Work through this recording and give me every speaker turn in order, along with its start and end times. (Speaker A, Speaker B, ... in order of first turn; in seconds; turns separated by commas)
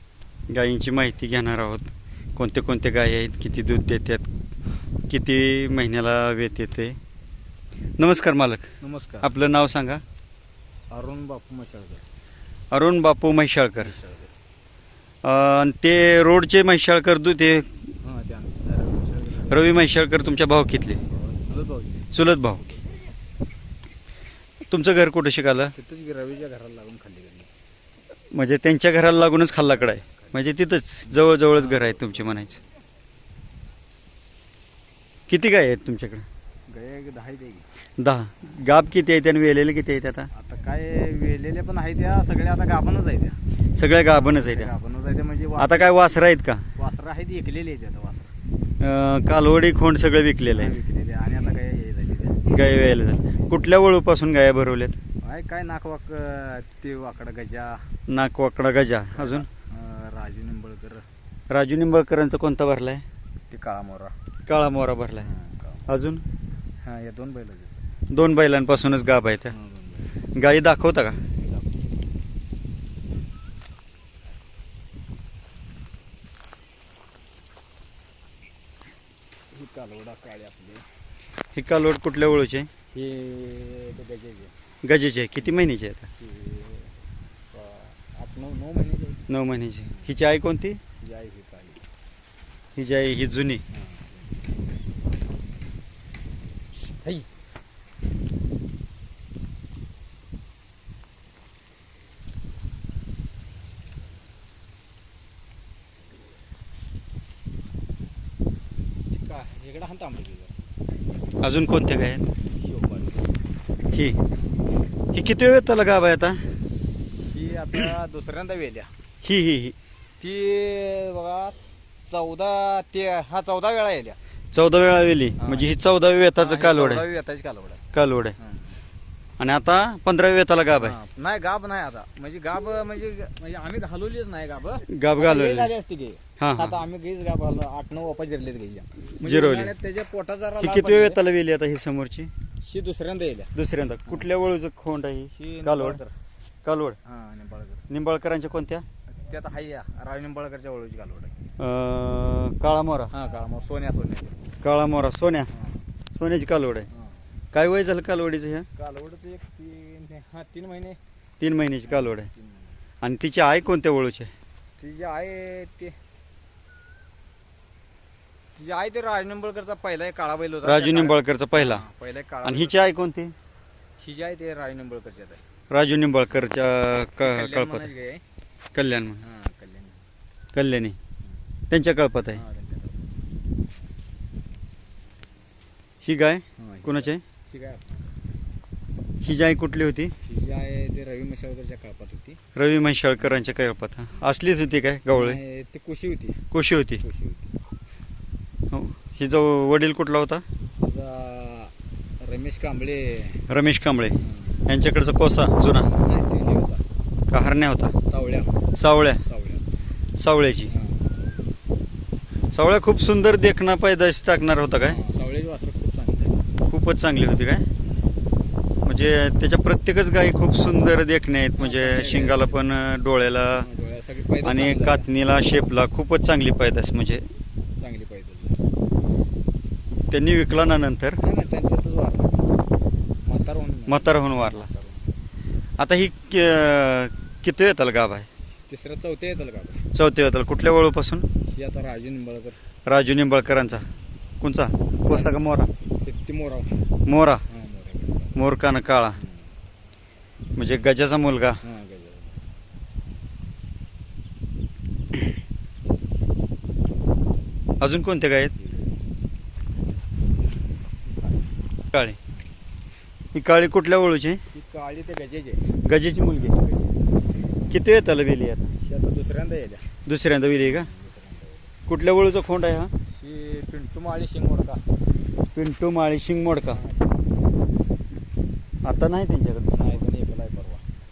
Speaker A: 0.5-4.3, Speaker A: 5.1-7.0, Speaker A: 8.0-8.7, Speaker B: 8.8-9.3, Speaker A: 9.2-10.0, Speaker B: 10.9-12.0, Speaker A: 12.7-13.9, Speaker B: 13.8-14.3, Speaker A: 15.2-17.9, Speaker B: 18.0-19.7, Speaker A: 19.5-21.0, Speaker B: 21.0-22.9, Speaker A: 22.1-22.7, Speaker A: 24.7-25.7, Speaker B: 25.8-27.5, Speaker A: 28.3-32.6, Speaker B: 29.8-30.4, Speaker B: 31.1-32.6, Speaker A: 35.3-36.2, Speaker B: 36.7-37.7, Speaker A: 38.0-40.3, Speaker B: 40.3-43.4, Speaker A: 43.8-44.7, Speaker B: 44.2-46.2, Speaker A: 45.6-46.7, Speaker B: 46.8-48.3, Speaker A: 48.8-50.8, Speaker B: 50.5-52.4, Speaker A: 52.5-55.0, Speaker B: 55.2-57.9, Speaker A: 58.1-59.5, Speaker B: 59.2-61.0, Speaker A: 61.5-63.0, Speaker B: 63.5-64.1, Speaker A: 64.5-65.3, Speaker B: 65.2-65.9, Speaker A: 65.9-66.2, Speaker B: 66.8-67.8, Speaker A: 68.1-69.5, Speaker B: 69.5-70.1, Speaker A: 70.3-71.2, Speaker B: 71.4-71.7, Speaker B: 79.5-80.8, Speaker A: 81.5-82.7, Speaker B: 82.9-84.5, Speaker A: 84.8-86.1, Speaker B: 86.2-89.2, Speaker A: 89.3-90.8, Speaker B: 89.9-90.2, Speaker B: 91.0-91.8, Speaker A: 92.8-93.6, Speaker B: 93.7-94.3, Speaker B: 96.8-97.3, Speaker B: 109.1-110.5, Speaker A: 111.4-112.3, Speaker B: 112.6-113.4, Speaker A: 113.9-114.2, Speaker A: 115.1-116.4, Speaker B: 117.3-118.9, Speaker A: 119.2-119.8, Speaker B: 120.2-124.2, Speaker A: 124.5-127.0, Speaker B: 125.4-125.7, Speaker B: 126.3-127.8, Speaker A: 127.9-128.3, Speaker B: 128.4-128.8, Speaker A: 129.4-131.0, Speaker B: 130.8-141.3, Speaker A: 134.9-135.7, Speaker A: 136.4-136.8, Speaker A: 139.2-139.7, Speaker A: 140.6-142.3, Speaker B: 142.6-143.5, Speaker A: 143.5-146.0, Speaker B: 145.3-146.1, Speaker A: 146.7-147.0, Speaker B: 147.0-147.9, Speaker A: 147.9-148.8, Speaker B: 149.1-151.3, Speaker A: 151.6-153.1, Speaker B: 153.1-154.4, Speaker A: 154.6-155.5, Speaker B: 155.5-155.8, Speaker A: 156.2-156.9, Speaker B: 156.9-157.2, Speaker A: 157.5-158.7, Speaker B: 158.8-161.0, Speaker A: 161.4-162.3, Speaker B: 161.9-162.8, Speaker A: 163.0-164.3, Speaker B: 164.8-166.0, Speaker B: 168.6-172.9, Speaker A: 170.6-171.8, Speaker A: 172.4-173.3, Speaker B: 174.0-175.4, Speaker A: 175.7-177.9, Speaker B: 177.2-178.2, Speaker A: 178.7-179.2, Speaker B: 179.2-180.1, Speaker A: 180.6-181.0, Speaker A: 181.7-182.4, Speaker B: 182.3-183.2, Speaker A: 186.0-187.2, Speaker B: 186.6-188.1, Speaker A: 189.2-190.1, Speaker B: 190.2-192.4, Speaker A: 192.6-195.4, Speaker B: 193.2-193.4, Speaker B: 195.1-196.4, Speaker A: 196.5-197.0, Speaker B: 197.0-197.5, Speaker A: 198.7-200.4, Speaker B: 200.8-203.4, Speaker A: 203.5-205.9, Speaker B: 204.2-204.6, Speaker B: 205.8-206.9, Speaker A: 207.3-208.0, Speaker B: 208.0-209.7, Speaker A: 208.8-209.2, Speaker A: 210.2-210.7, Speaker B: 210.7-211.5, Speaker A: 212.5-215.0, Speaker B: 214.8-216.4, Speaker A: 216.7-217.7, Speaker A: 218.8-223.7, Speaker B: 221.6-222.6, Speaker B: 223.6-225.1, Speaker A: 224.4-227.3, Speaker B: 227.8-228.6, Speaker A: 230.1-231.2, Speaker B: 231.2-232.6, Speaker B: 233.2-235.2, Speaker A: 233.9-234.7, Speaker A: 235.8-238.3, Speaker B: 238.7-239.9, Speaker A: 239.9-241.3, Speaker B: 241.5-242.6, Speaker A: 242.9-243.9, Speaker A: 244.4-245.7, Speaker B: 246.0-246.8, Speaker A: 247.1-247.4, Speaker B: 247.5-248.3, Speaker A: 248.3-249.2, Speaker B: 249.2-249.5, Speaker A: 250.6-251.6, Speaker B: 251.6-252.4, Speaker A: 257.8-258.5, Speaker B: 258.6-258.9, Speaker B: 261.1-261.5, Speaker A: 261.9-262.2, Speaker A: 263.3-264.4, Speaker B: 264.5-265.7, Speaker A: 265.9-266.6, Speaker B: 266.4-267.1, Speaker A: 267.7-268.7, Speaker B: 268.8-269.9, Speaker A: 270.1-270.9, Speaker B: 270.5-271.7, Speaker A: 271.9-272.9, Speaker B: 273.1-274.9, Speaker A: 275.5-276.8, Speaker B: 276.7-277.2, Speaker A: 278.8-280.0, Speaker B: 279.7-280.8